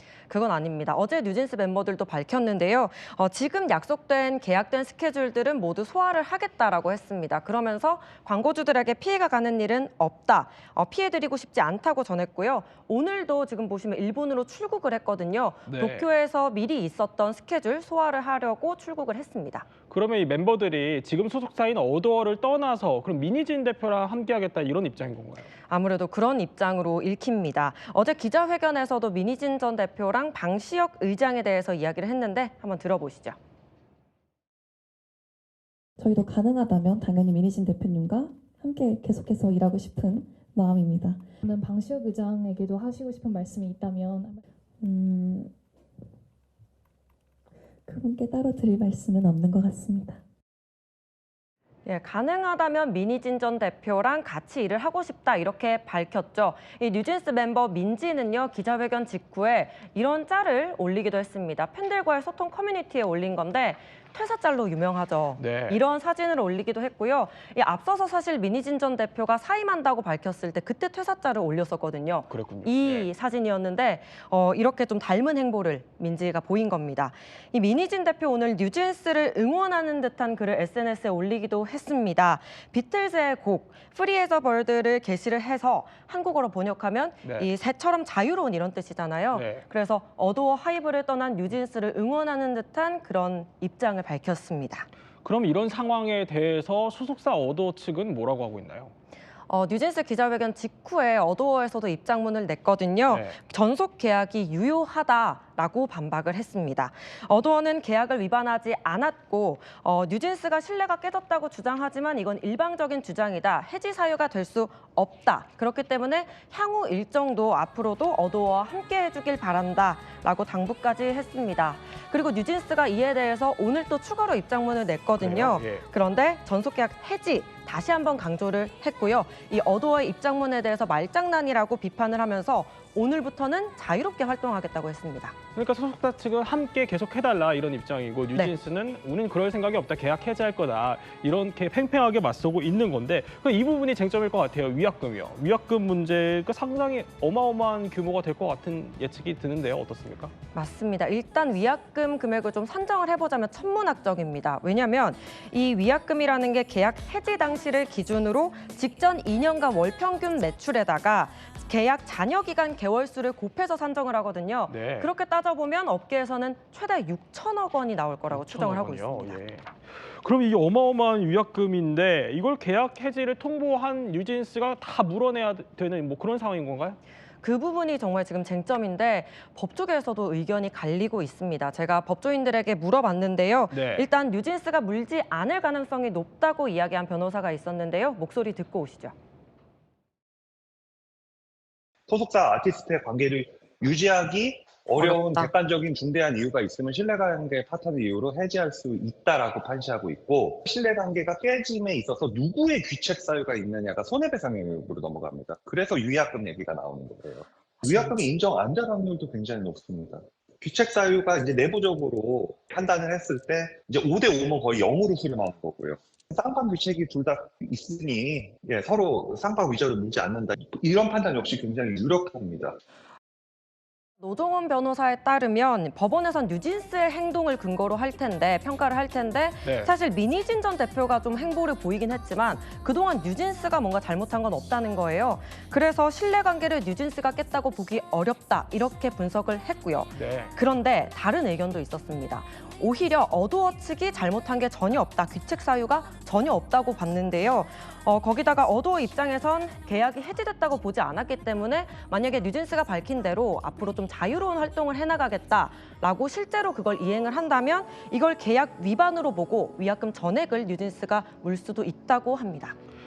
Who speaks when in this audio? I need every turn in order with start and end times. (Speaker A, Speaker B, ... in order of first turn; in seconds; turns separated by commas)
Speaker A: 0.3-19.6, Speaker B: 15.7-16.1, Speaker B: 19.9-25.5, Speaker A: 25.7-33.4, Speaker C: 36.0-41.2, Speaker D: 41.4-44.4, Speaker C: 44.8-45.5, Speaker C: 47.9-50.2, Speaker A: 51.9-94.9, Speaker B: 65.4-65.8, Speaker B: 72.3-73.1, Speaker B: 87.2-87.5, Speaker B: 89.3-89.6, Speaker B: 95.2-98.9, Speaker A: 99.5-135.3, Speaker B: 103.1-103.4, Speaker B: 125.2-125.8, Speaker B: 135.5-150.3, Speaker A: 150.5-169.4, Speaker B: 164.7-165.1, Speaker B: 168.3-177.0, Speaker A: 177.4-189.1, Speaker B: 183.7-184.1, Speaker E: 192.1-222.8, Speaker A: 194.9-195.5, Speaker A: 207.8-208.1, Speaker A: 224.2-262.8, Speaker B: 229.6-229.9, Speaker B: 240.1-240.5